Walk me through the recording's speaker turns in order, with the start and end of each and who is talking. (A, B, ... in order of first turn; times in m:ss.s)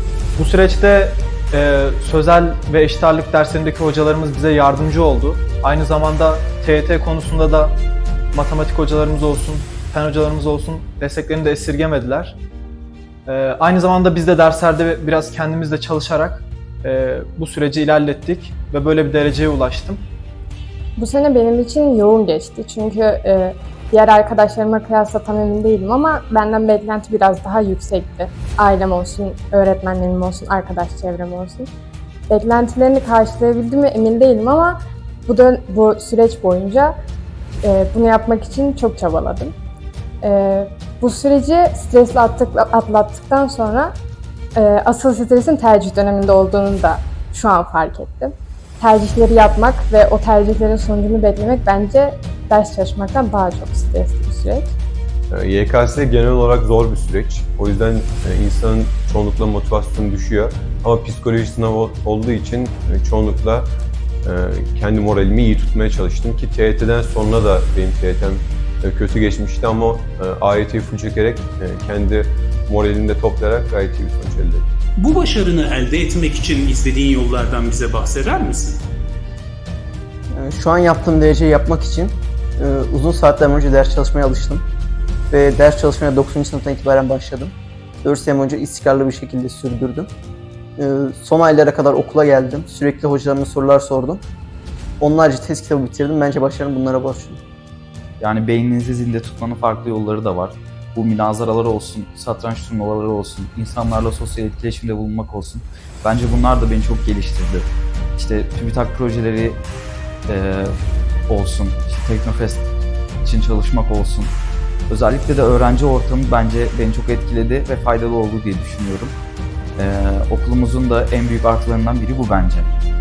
0:00.4-0:07.8 A
0:08.3-0:12.4 A
0:13.3-0:20.0 A
0:21.0-0:31.7 B
0:32.3-0:36.9 B
0:37.6-0:39.5 B
0:40.2-0:43.9 B
0:44.6-0:54.7 B
0:55.3-1:03.7 C
1:04.2-1:14.6 C
1:15.0-1:18.8 D
1:20.3-1:24.6 E
1:25.3-1:27.5 E
1:28.0-1:30.1 E
1:30.8-1:34.2 E
1:35.0-1:37.4 E
1:38.2-1:49.6 F
1:50.3-1:50.7 F
1:51.3-1:52.7 F
1:53.2-1:54.3 F
1:54.9-1:59.1 F
1:59.8-2:02.7 F